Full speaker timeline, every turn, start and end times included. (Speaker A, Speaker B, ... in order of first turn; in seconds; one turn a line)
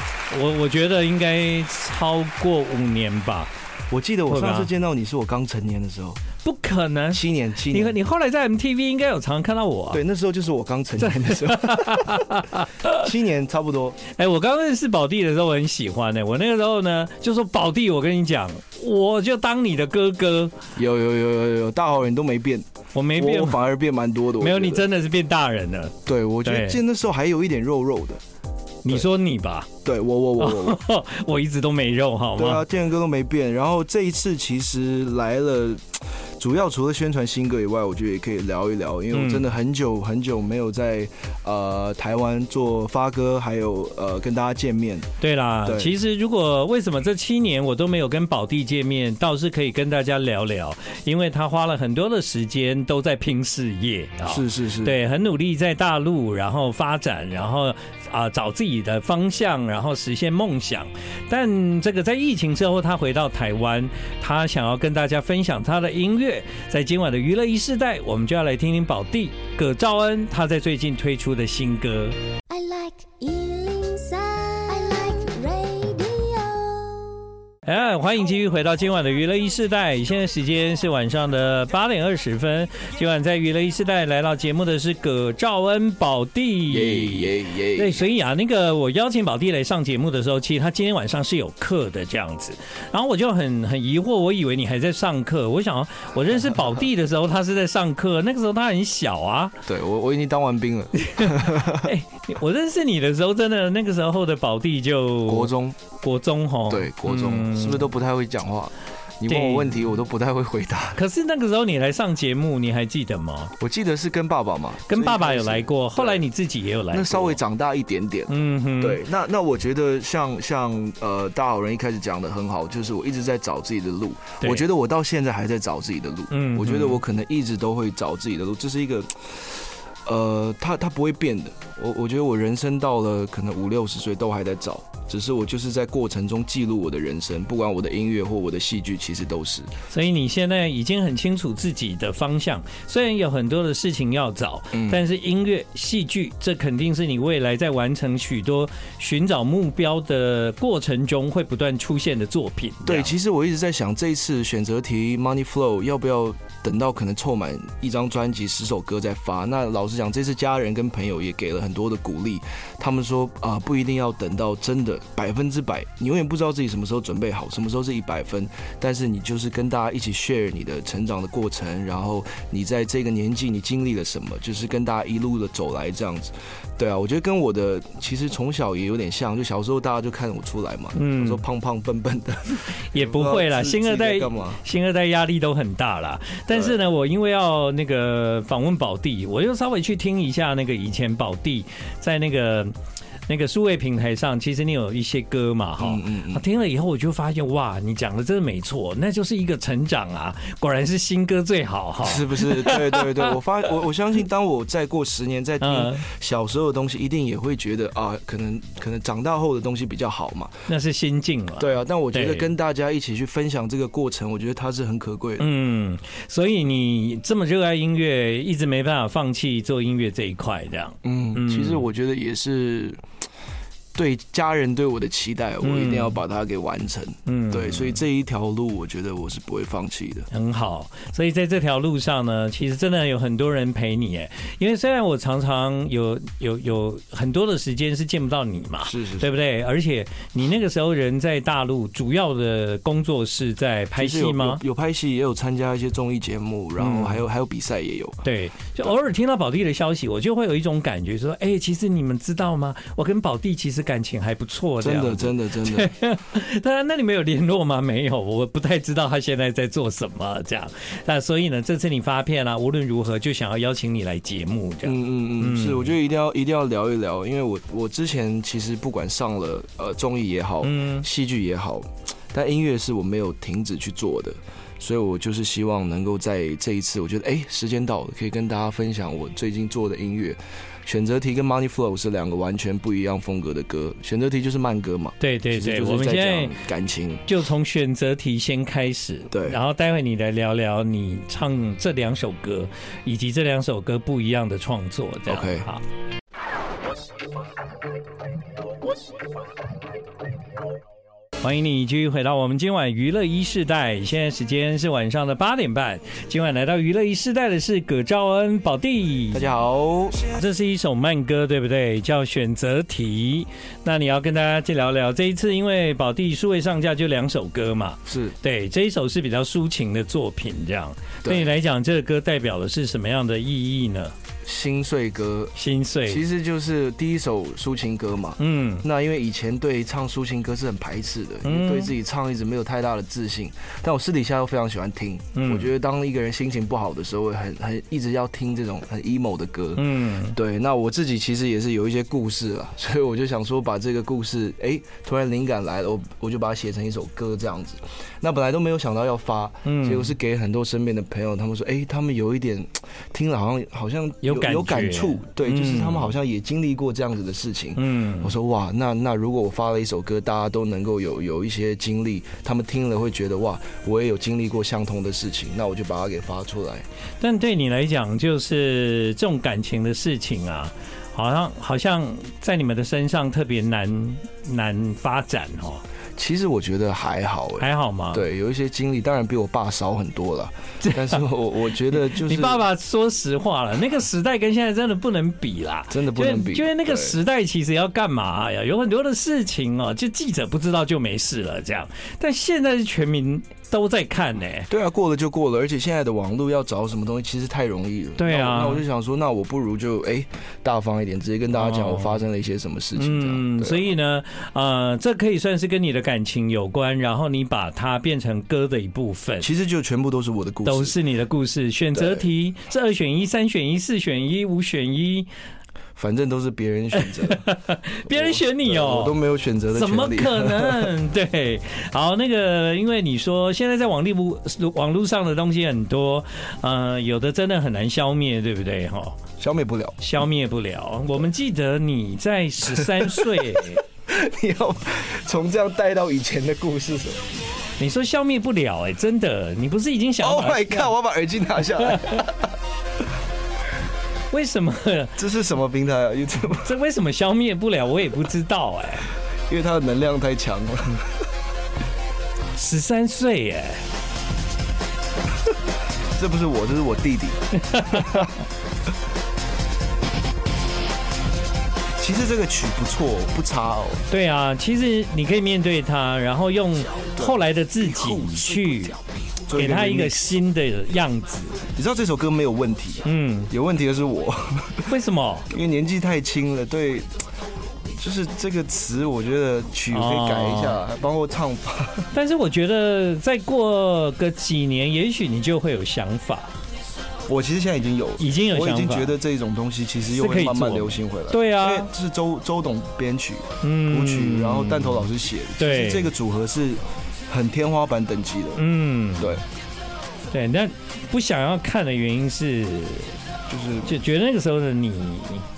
Speaker A: 0.3-3.5
Speaker B: 3.9-6.2
Speaker A: 4.3-4.7
Speaker A: 6.4-10.0
Speaker B: 7.1-8.0
Speaker B: 9.9-12.3
Speaker A: 11.0-13.0
Speaker B: 12.9-14.0
Speaker A: 14.1-20.5
Speaker B: 20.8-24.9
Speaker A: 22.9-23.6
Speaker A: 24.4-26.8
Speaker B: 26.1-28.2
Speaker A: 28.8-29.7
Speaker B: 29.8-30.8
Speaker A: 30.4-32.7
Speaker B: 32.4-45.1
Speaker A: 39.1-39.5
Speaker A: 45.2-72.2
Speaker B: 45.6-46.0
Speaker B: 54.3-55.0
Speaker C: 72.5-77.3
Speaker A: 77.7-99.6
Speaker B: 86.7-88.1
Speaker B: 99.7-101.9
Speaker A: 101.0-105.5
Speaker B: 105.3-105.8
Speaker A: 106.0-107.9
Speaker B: 106.7-111.0
Speaker A: 109.3-109.7
Speaker A: 111.0-113.5
Speaker B: 113.6-116.3
Speaker A: 114.9-117.4
Speaker B: 116.9-139.7
Speaker A: 118.3-119.0
Speaker A: 126.3-127.0
Speaker A: 139.9-153.1
Speaker B: 144.7-145.0
Speaker B: 152.8-184.6
Speaker A: 181.0-181.4
Speaker A: 182.8-192.8
Speaker B: 186.5-186.8
Speaker A: 193.3-203.3
Speaker B: 195.8-196.4
Speaker B: 202.0-210.7
Speaker A: 205.6-206.1
Speaker A: 210.7-212.5
Speaker B: 211.6-215.5
Speaker A: 215.4-221.8
Speaker B: 221.0-223.0
Speaker B: 223.9-230.3
Speaker A: 225.6-226.2
Speaker A: 227.3-228.0
Speaker A: 230.3-244.6
Speaker B: 238.8-239.3
Speaker B: 244.0-248.2
Speaker A: 246.8-247.2
Speaker A: 248.2-265.9
Speaker B: 254.8-255.9
Speaker B: 264.8-287.3
Speaker A: 270.6-271.1
Speaker A: 285.2-286.6
Speaker A: 287.3-295.8
Speaker B: 289.3-289.6
Speaker B: 295.3-295.7
Speaker A: 301.4-309.5
Speaker B: 309.3-310.3
Speaker A: 310.3-324.1
Speaker B: 318.1-318.4
Speaker B: 321.2-321.5
Speaker B: 324.4-366.9
Speaker A: 325.6-326.2
Speaker A: 328.4-328.9
Speaker A: 331.4-331.9
Speaker A: 335.3-335.7
Speaker A: 339.8-340.4
Speaker A: 349.6-350.1
Speaker A: 354.2-356.1
Speaker A: 357.8-358.3
Speaker A: 367.2-375.8
Speaker B: 376.2-382.6
Speaker A: 377.6-378.2
Speaker A: 380.8-381.2
Speaker A: 381.9-394.7
Speaker B: 385.9-387.2
Speaker B: 394.7-403.9
Speaker A: 398.2-398.8
Speaker A: 401.5-402.2
Speaker A: 403.0-409.5
Speaker B: 409.4-411.0
Speaker A: 410.6-415.3
Speaker B: 411.9-412.3
Speaker B: 416.0-417.5
Speaker A: 417.0-419.1
Speaker B: 418.1-420.9
Speaker A: 419.7-429.2
Speaker B: 429.4-430.0
Speaker A: 430.0-433.8
Speaker B: 432.7-437.3
Speaker A: 437.8-440.9
Speaker B: 440.2-442.4
Speaker A: 441.8-442.2
Speaker A: 444.3-445.2
Speaker B: 445.2-446.8
Speaker A: 446.6-449.1
Speaker B: 449.5-451.2
Speaker A: 452.6-453.8
Speaker B: 456.2-458.3
Speaker A: 457.6-458.1
Speaker B: 462.0-464.0
Speaker A: 464.1-469.0
Speaker B: 467.2-470.4
Speaker A: 469.5-471.7
Speaker B: 471.8-474.9
Speaker A: 473.0-473.5
Speaker A: 474.9-475.5
Speaker B: 475.5-477.2
Speaker B: 478.0-482.1
Speaker A: 479.9-480.8
Speaker A: 482.1-486.5
Speaker B: 487.3-498.6
Speaker A: 488.2-489.2
Speaker A: 490.1-491.9
Speaker A: 493.6-496.1
Speaker A: 498.6-499.4
Speaker B: 499.2-499.4
Speaker A: 500.3-503.2
Speaker B: 503.5-503.9
Speaker A: 503.9-505.5